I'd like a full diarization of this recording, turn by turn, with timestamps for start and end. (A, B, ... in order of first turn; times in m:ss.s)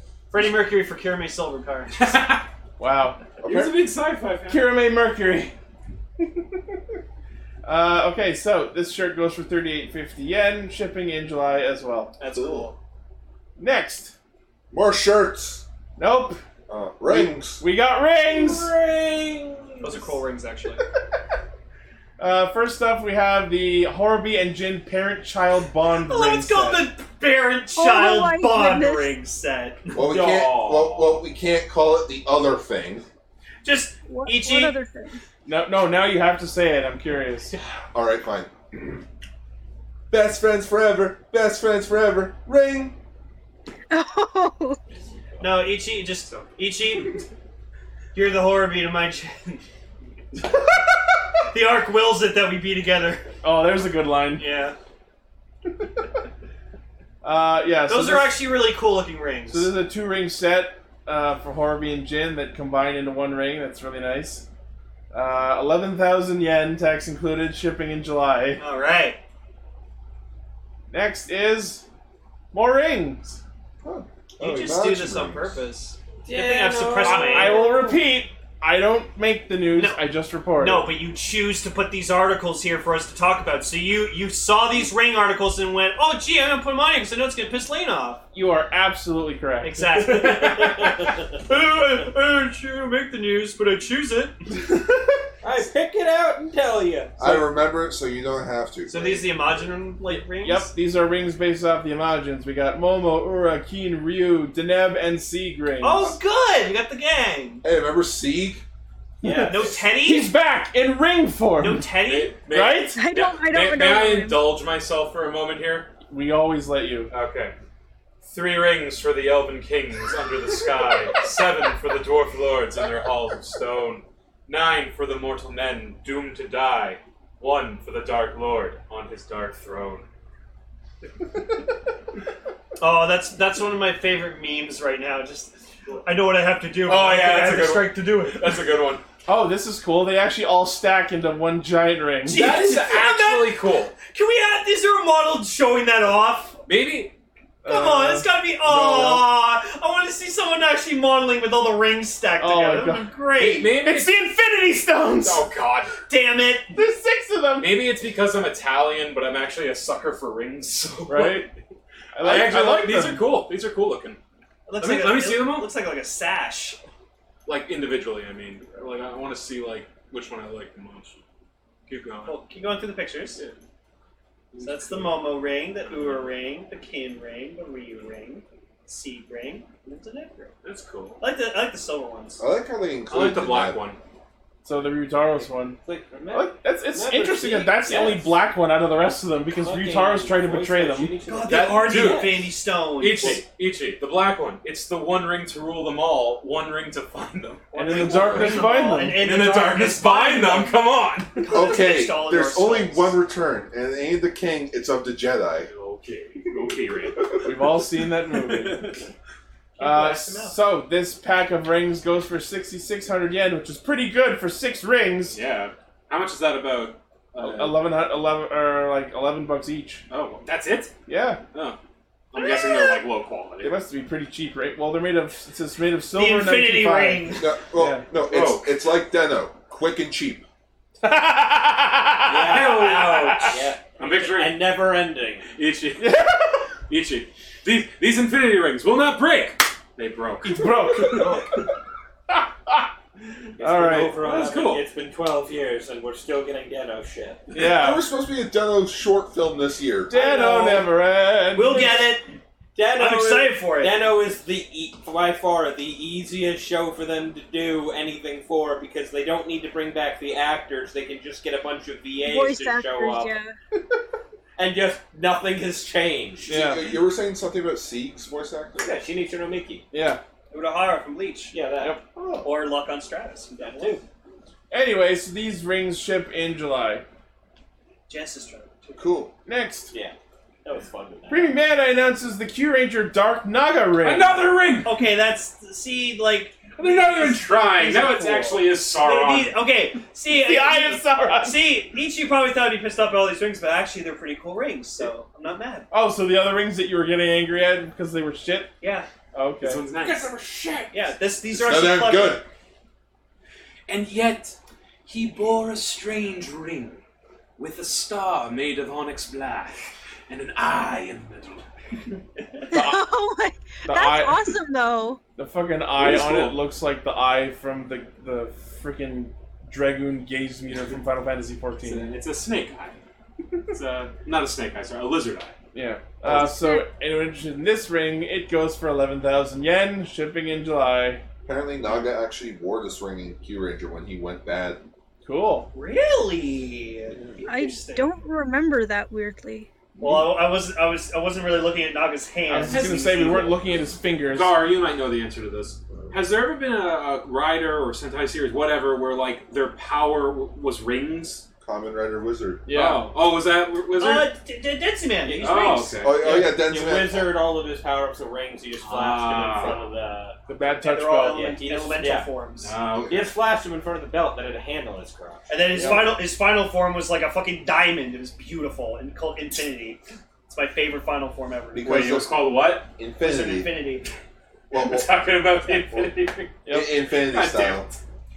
0:00.3-0:02.1 A
0:02.0-0:02.5 B
0:02.8-0:03.2 C
0:03.4-0:03.9 D
0:03.4-0:04.7 B
0:04.5-0:05.5 C
0:07.6-0:12.1 C
0:12.2-0:12.8 A
0:12.3-0:12.7 D
0:13.6-0:14.2 C
0:14.7-0:15.6 D
0:16.0-0:16.4 C
0:16.7-0:17.6 D
0:17.1-0:18.7 C
0:19.8-0:20.8 A
0:22.2-0:26.9 C
0:26.0-0:30.0 A
0:27.8-0:29.1 E
0:30.0-0:33.1 D
0:30.0-0:31.2 F
0:33.6-0:34.8 A
0:34.1-0:35.2 E
0:35.5-0:37.5 C
0:37.9-0:38.9 D
0:40.1-0:43.0 D
0:43.9-0:44.8 E
0:45.4-0:47.2 A
0:48.1-0:49.6 A
0:50.4-0:53.3 A
0:53.4-0:54.5 C
0:54.4-0:54.8 A
0:57.2-0:58.4 C
0:57.9-0:59.7 A
0:59.5-1:04.5 C
1:05.1-1:08.6 C
1:08.6-1:09.2 A
1:10.9-1:11.8 C
1:12.5-1:13.4 C
1:13.8-1:15.6 D
1:14.4-1:17.7 A
1:16.2-1:18.0 F
1:17.0-1:20.9 C
1:19.7-1:20.0 A
1:20.6-1:28.2 A
1:28.3-1:30.2 C
1:29.6-1:34.4 A
1:30.0-1:30.9 B
1:35.4-1:37.2 F
1:37.2-1:39.3 D
1:38.9-1:40.7 A
1:40.4-1:46.1 C
1:45.8-1:47.6 A
1:47.6-1:48.6 D
1:49.2-1:49.8 F
1:49.2-1:51.9 C
1:49.4-1:50.3 A
1:51.6-1:52.4 A
1:52.0-1:55.9 B
1:52.5-1:53.0 C
1:53.0-1:54.5 E
1:56.1-1:57.1 C
1:57.1-1:57.5 B
1:58.2-2:10.0 B
2:12.8-2:18.6 A
2:16.8-2:19.0 B
2:19.3-2:22.5 C
2:22.2-2:26.6 A
2:22.3-2:24.0 B
2:26.7-2:27.1 B
2:27.6-2:29.3 C
2:27.6-2:33.8 A
2:32.4-2:33.1 C
2:33.4-2:34.2 B
2:33.7-2:35.5 C
2:35.2-2:36.0 B
2:36.1-2:36.8 A
2:36.7-2:37.9 C
2:37.6-2:41.5 B
2:41.1-2:41.5 C
2:42.2-2:43.3 C
2:42.2-2:44.2 B
2:44.7-2:46.8 A
2:44.8-2:45.7 B
2:47.5-2:51.2 B
2:51.9-2:52.4 B
2:52.2-2:53.4 A
2:54.5-2:55.2 B
2:54.6-3:00.5 A
2:55.8-2:56.3 B
3:00.6-3:01.2 B
3:01.2-3:02.4 A
3:02.4-3:03.8 D
3:03.1-3:04.0 B
3:04.6-3:05.8 C
3:05.8-3:08.4 F
3:06.3-3:11.2 C
3:09.5-3:12.4 F
3:11.3-3:13.4 A
3:11.5-3:21.5 B
3:17.7-3:20.8 A
3:17.8-3:19.2 C
3:21.4-3:23.2 A
3:21.5-3:25.7 D
3:25.6-3:27.5 B
3:27.4-3:28.9 C
3:28.3-3:29.1 B
3:29.8-3:30.6 A
3:29.8-3:35.4 C
3:35.3-3:37.8 B
3:37.4-3:40.0 C
3:40.1-3:40.9 B
3:41.1-3:41.4 C
3:42.3-3:43.8 B
3:42.4-3:43.0 E
3:43.6-3:48.1 C
3:46.1-3:47.5 A
3:47.4-3:50.4 D
3:48.2-3:48.8 B
3:51.0-3:53.5 C
3:52.3-3:55.0 B
3:52.3-3:55.5 F
3:52.6-3:53.7 A
3:55.5-3:56.2 B
3:56.0-3:56.7 C
3:56.9-4:00.7 B
4:00.4-4:01.5 C
4:01.0-4:01.5 D
4:02.3-4:02.9 C
4:03.6-4:04.2 C
4:03.6-4:07.5 F
4:04.1-4:04.8 B
4:07.5-4:08.0 C
4:07.6-4:10.1 D
4:10.1-4:12.1 C
4:10.1-4:10.9 F
4:11.5-4:12.4 A
4:12.8-4:23.4 F
4:12.9-4:14.0 A
4:22.2-4:23.6 E
4:24.6-4:26.6 F
4:26.5-4:29.0 D
4:26.5-4:26.9 C
4:28.8-4:29.8 F
4:29.9-4:30.2 C
4:30.5-4:31.6 A
4:31.5-4:32.0 F
4:32.2-4:32.5 D
4:32.4-4:34.0 A
4:33.6-4:34.0 F
4:34.7-4:37.0 C
4:38.1-4:39.1 A
4:39.0-4:39.3 D
4:39.5-4:39.9 C
4:39.9-4:41.6 F
4:41.3-4:44.4 C
4:44.0-4:45.0 B
4:44.8-4:55.9 A
4:46.8-4:49.6 B
4:50.3-4:51.6 C
4:55.9-4:58.7 C
4:58.8-4:59.1 A
4:59.3-4:59.9 C
4:59.6-5:01.1 B
5:00.9-5:02.4 A
5:01.5-5:02.4 D
5:03.9-5:07.0 B
5:07.6-5:11.7 B
5:12.7-5:13.0 C
5:12.7-5:15.2 E
5:13.9-5:14.5 C
5:15.4-5:22.1 C
5:16.0-5:16.6 B
5:21.8-5:23.0 B
5:23.7-5:25.6 B
5:25.7-5:31.2 C
5:26.3-5:26.9 E
5:31.5-5:34.8 D
5:35.2-5:35.7 C
5:35.7-5:38.1 A
5:37.5-5:39.7 E
5:40.0-5:43.6 A
5:42.5-5:44.6 C
5:42.7-5:43.6 B
5:44.3-5:51.4 B
5:51.6-5:52.6 D
5:52.7-5:53.1 C
5:52.7-5:54.3 B
5:54.0-5:56.0 A
5:55.2-6:00.4 F
5:55.4-5:56.4 B
5:56.0-5:57.4 D
5:58.8-5:59.9 B
5:59.6-5:59.9 A
6:00.5-6:01.6 C
6:00.8-6:02.7 A
6:01.2-6:02.3 F
6:02.6-6:03.4 B
6:03.1-6:05.6 F
6:05.5-6:12.0 A
6:11.8-6:12.4 D
6:11.8-6:12.9 B
6:13.0-6:13.7 D
6:13.2-6:14.1 A
6:14.7-6:15.1 D
6:14.7-6:16.6 B
6:15.7-6:16.1 D
6:16.6-6:16.9 C
6:16.7-6:17.9 D
6:17.2-6:18.0 B